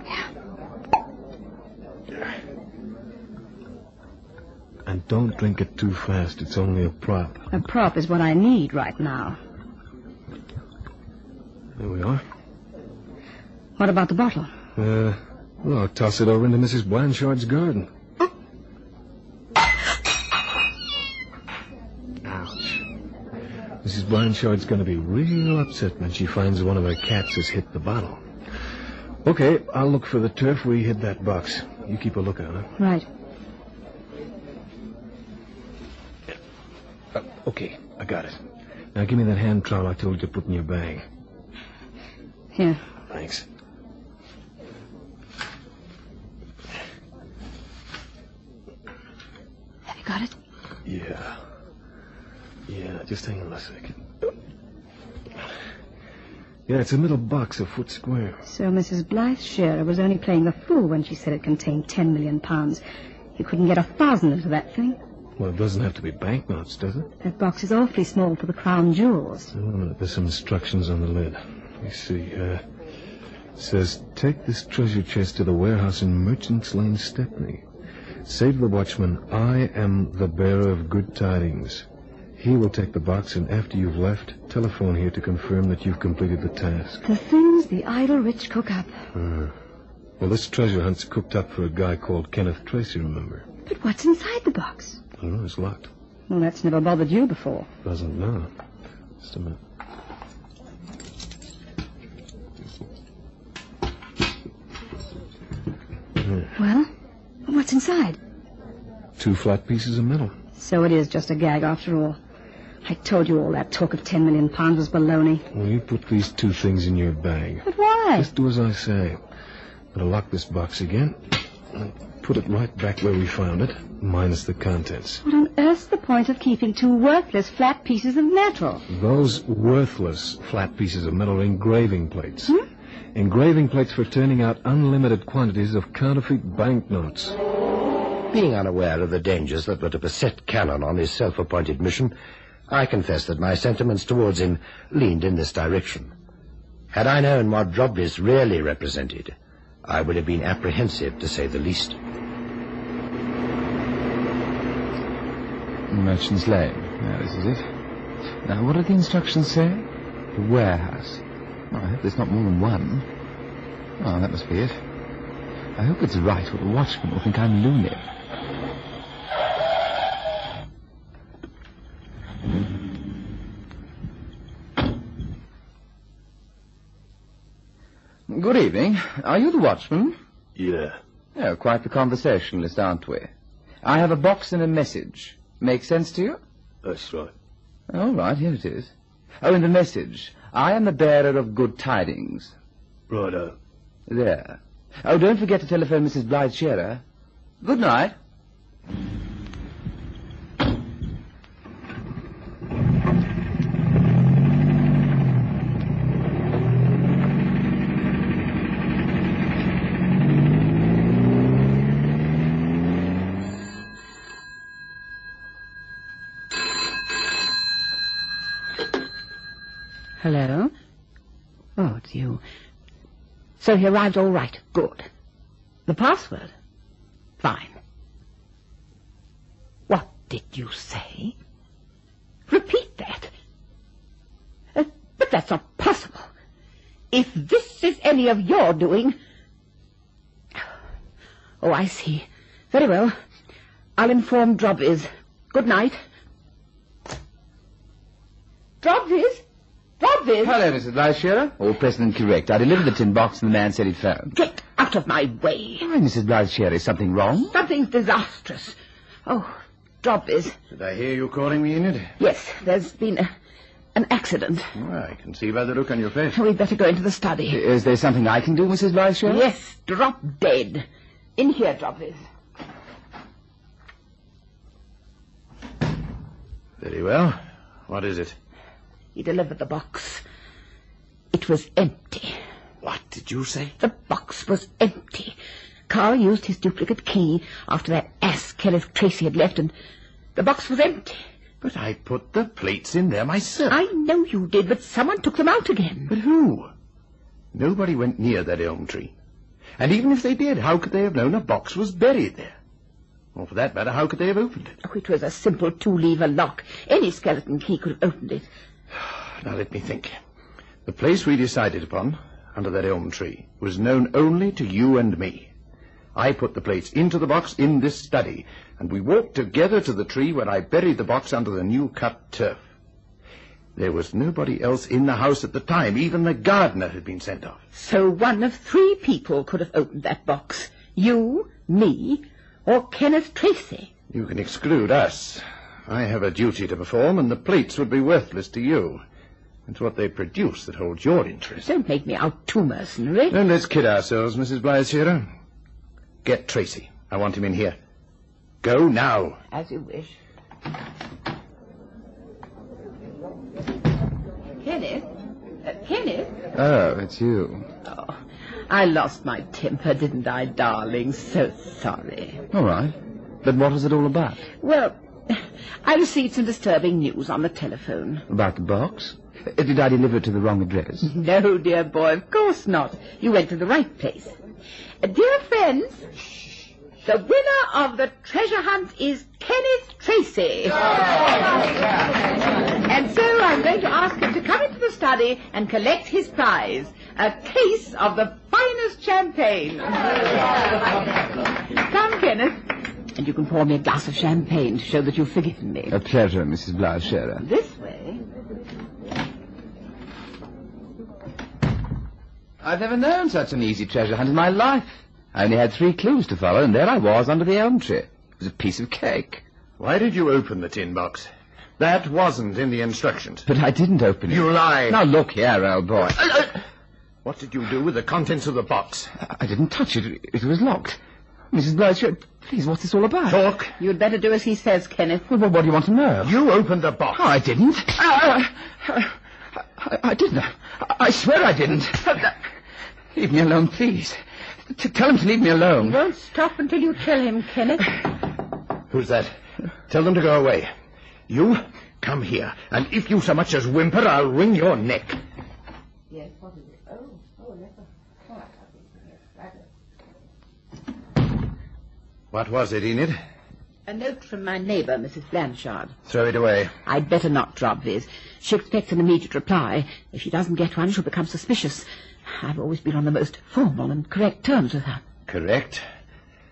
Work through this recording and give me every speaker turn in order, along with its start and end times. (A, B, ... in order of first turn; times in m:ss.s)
0:04.8-0:07.5 A
0:07.5-0:09.4 B
0:11.8-0:12.2 A
0:13.8-0:14.5 B
0:14.8-0:17.9 A
0:22.2-0:22.6 A
0:23.8-0:28.2 A
0:29.2-0:32.7 A
0:32.8-0:33.1 B
0:37.2-0:38.4 A
0:38.9-0:41.1 A
0:42.6-0:42.8 B
0:43.1-0:43.5 A
0:49.9-0:50.3 B
0:50.8-0:51.4 A
0:52.7-0:54.0 A
0:56.7-0:58.4 A
0:58.4-1:02.8 B
1:03.4-1:05.0 B
1:05.4-1:07.1 A
1:07.2-1:09.5 B
1:09.5-1:12.6 A
1:13.6-1:17.6 A
1:18.2-1:21.9 A
1:22.4-1:27.0 A
1:27.0-1:29.0 B
1:29.1-1:29.5 A
1:30.2-1:33.5 A
1:33.7-1:35.0 B
1:35.2-1:35.9 A
1:36.3-1:37.7 B
1:37.8-1:38.5 A
1:39.2-1:39.6 A
1:46.6-1:46.9 B
1:47.5-1:48.2 B
1:49.2-1:50.4 A
1:50.6-1:52.2 B
1:52.8-1:55.5 B
1:55.5-1:57.7 A
1:57.6-1:58.3 B
1:58.2-1:59.2 A
1:59.9-2:05.2 A
2:05.2-2:08.9 B
2:08.9-2:12.6 A
2:13.1-2:17.4 A
2:18.3-2:22.2 C
2:22.7-2:26.1 C
2:26.9-2:32.0 C
2:35.9-2:37.7 D
2:38.4-2:43.1 D
2:44.0-2:44.8 D
2:45.8-2:48.0 D
2:58.3-3:00.2 D
3:00.6-3:01.0 A
3:01.4-3:03.3 D
3:03.8-3:06.4 D
3:06.8-3:07.3 A
3:07.9-3:12.5 D
3:13.1-3:13.6 A
3:14.1-3:17.0 D
3:17.6-3:18.2 D
3:40.2-3:40.7 E
3:41.8-3:42.4 E
3:43.6-3:45.1 E
3:45.9-3:46.5 E
3:47.4-3:47.8 E
3:49.9-3:51.4 E
3:52.5-3:53.3 E
3:54.8-3:56.3 E
3:57.1-3:59.2 E
4:01.6-4:03.2 E
4:04.0-4:06.0 E
4:08.8-4:09.4 E
4:10.0-4:10.6 E
4:10.4-4:14.3 D
4:14.3-4:15.9 E
4:15.8-4:17.5 D
4:17.5-4:20.6 E
4:20.7-4:22.1 F
4:22.2-4:23.3 E
4:24.0-4:24.7 E
4:24.8-4:26.4 F
4:26.3-4:27.6 E
4:27.5-4:29.4 D
4:29.2-4:30.9 E
4:31.4-4:32.2 E
4:36.8-4:38.4 F
4:39.2-4:40.2 E
4:41.3-4:42.4 E
4:42.8-4:43.8 F
4:43.8-4:45.4 E
4:45.9-4:49.7 E
4:50.4-4:51.2 E
4:51.6-4:53.8 F
4:53.7-4:56.1 E
4:56.1-4:56.7 F
4:57.5-4:59.1 F
4:59.8-5:02.6 F
5:03.4-5:04.7 F
5:04.8-5:08.5 E
5:09.0-5:10.1 F
5:10.9-5:15.5 F
5:16.2-5:22.6 F
5:23.8-5:27.6 F
5:27.7-5:33.9 E
5:34.1-5:39.0 F
5:39.7-5:41.7 F
5:41.6-5:43.4 E
5:43.3-5:45.3 F
5:46.2-5:47.8 F
5:48.6-5:49.4 F
5:49.5-5:50.2 E
5:54.6-5:55.1 E
5:55.6-5:56.4 E
5:56.5-5:57.7 D
5:57.9-6:02.4 E
6:02.5-6:04.4 D
6:04.6-6:08.2 E
6:08.3-6:11.1 D
6:11.0-6:14.4 E
6:15.0-6:16.1 E
6:17.0-6:21.4 E
6:22.8-6:30.4 E
6:31.7-6:36.0 E
6:35.9-6:37.4 D
6:37.4-6:38.2 E
6:42.6-6:49.4 D
6:49.8-6:51.3 F
6:51.8-6:53.5 F
6:53.5-6:56.6 D
6:54.3-6:55.0 F
6:57.2-6:59.1 F
6:59.2-7:01.0 D
7:01.5-7:03.4 D
7:03.3-7:03.8 F
7:03.8-7:05.3 E
7:05.3-7:06.4 D
7:06.2-7:07.2 F
7:07.1-7:09.1 D
7:09.8-7:12.3 D
7:13.1-7:16.0 D
7:15.8-7:17.9 E
7:18.9-7:19.3 F
7:19.9-7:20.7 F
7:21.3-7:25.2 F
7:26.1-7:29.6 E
7:32.3-7:33.2 F
7:33.9-7:36.0 E
7:36.1-7:36.8 F
7:36.9-7:45.0 E
7:45.3-7:45.8 F